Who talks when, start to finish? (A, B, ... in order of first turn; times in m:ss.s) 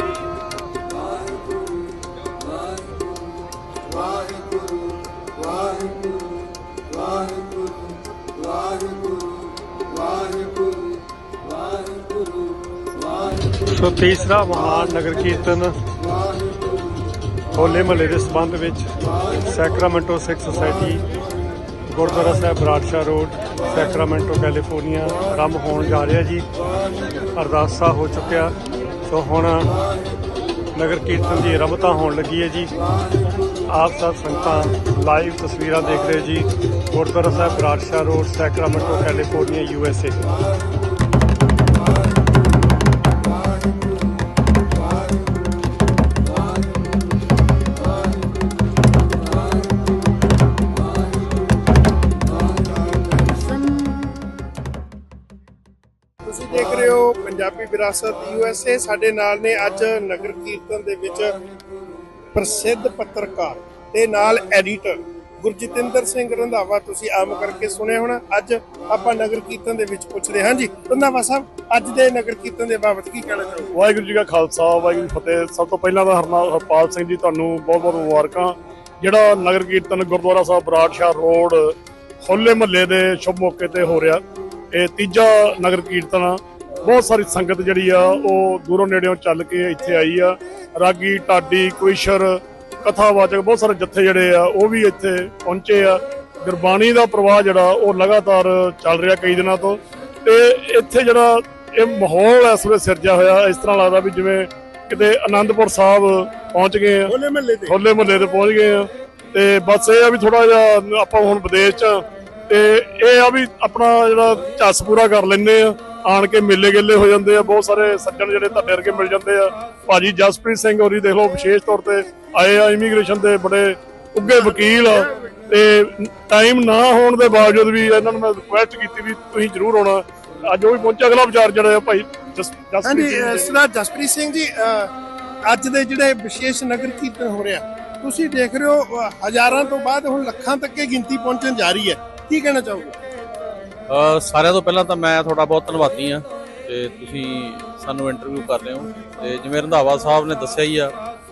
0:13.7-0:15.8 A
0:17.5-0:21.0 A
0:21.9-0:26.5 A
0:27.3-0:29.8 A
0:30.7-0:32.7 A
0:33.7-0:40.2 A
0:56.2-1:01.4 B
1:02.3-1:13.7 B
1:13.7-1:24.2 C
1:24.7-1:47.1 C
1:47.1-1:47.8 B
1:47.7-2:13.5 C
2:04.2-2:05.2 B
2:12.8-2:14.9 B
2:15.4-2:23.0 B
2:23.9-2:30.9 D